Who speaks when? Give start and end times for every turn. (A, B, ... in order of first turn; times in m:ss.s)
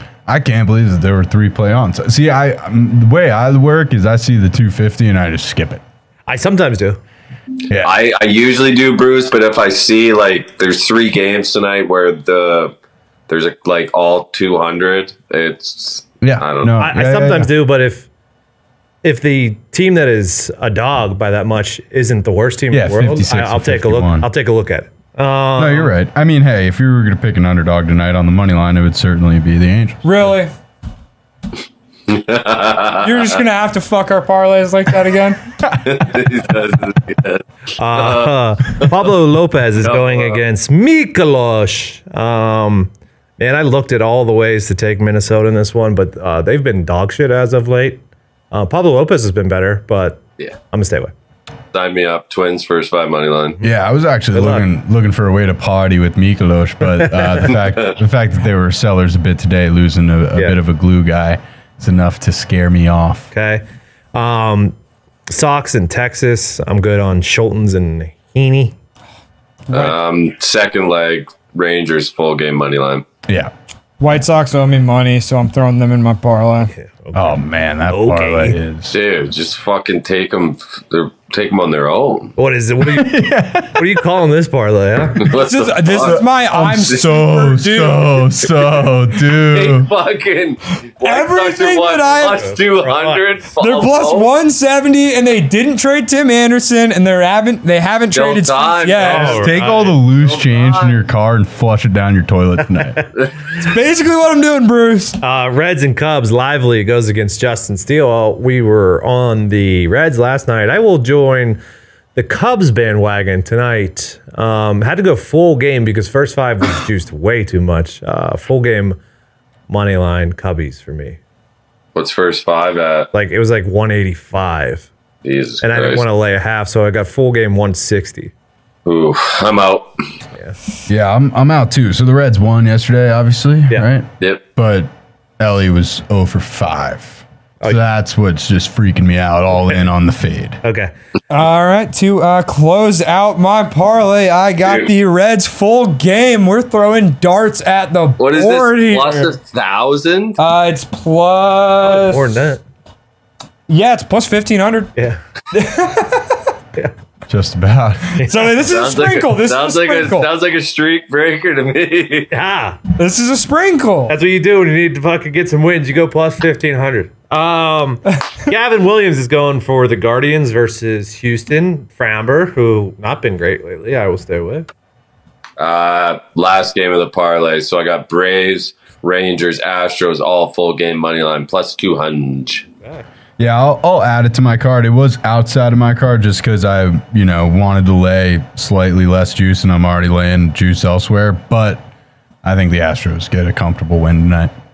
0:00.3-0:05.8 A
0:06.3-0:07.0 B
0:07.7-0:07.9 A
0:07.8-0:12.8 C
0:13.3-0:16.8 C
0:16.2-0:17.5 A
0:16.8-0:18.1 B
0:19.0-0:25.9 B
0:22.7-0:24.3 A
0:25.6-0:30.1 A
0:30.0-0:30.5 D
0:32.1-0:33.3 C
0:33.0-0:35.4 D
0:35.8-0:39.0 C
0:37.8-0:51.1 B
0:39.8-0:40.4 C
0:51.7-0:53.6 C
0:53.6-1:03.3 A
0:54.3-0:54.6 B
0:57.0-0:57.4 B
1:03.3-1:04.7 B
1:05.3-1:08.8 B
1:09.7-1:10.0 D
1:09.7-1:13.1 C
1:13.2-1:13.5 A
1:14.0-1:16.7 D
1:16.8-1:17.4 B
1:17.1-1:19.0 A
1:17.9-1:18.6 B
1:18.9-1:22.3 C
1:22.4-1:25.3 B
1:22.9-1:23.8 A
1:25.2-1:26.2 C
1:25.3-1:28.3 D
1:26.0-1:29.9 A
1:29.4-1:34.3 C
1:31.0-1:32.5 D
1:32.2-1:33.2 B
1:33.6-1:39.4 D
1:38.1-1:41.0 C
1:39.0-1:39.8 B
1:39.3-1:43.0 A
1:42.8-1:43.1 B
1:43.6-1:45.2 D
1:45.2-1:51.6 B
1:52.1-1:59.0 B
1:59.7-2:01.2 B
2:02.0-2:03.1 C
2:03.1-2:04.9 B
2:05.2-2:06.1 C
2:05.6-2:08.3 B
2:08.8-2:09.9 C
2:10.9-2:20.6 A
2:20.6-2:20.9 B
2:21.3-2:29.3 D
2:24.6-2:24.9 C
2:28.2-2:30.4 C
2:30.4-2:32.4 D
2:31.9-2:32.6 B
2:33.7-2:34.9 D
2:35.5-2:36.4 D
2:37.3-2:38.2 A
2:38.2-2:38.5 B
2:38.2-2:40.3 D
2:38.6-2:42.3 C
2:42.3-2:42.8 B
2:43.0-2:44.2 D
2:44.1-2:54.7 B
2:55.6-3:02.7 C
3:03.4-3:11.8 A
3:12.4-3:14.5 A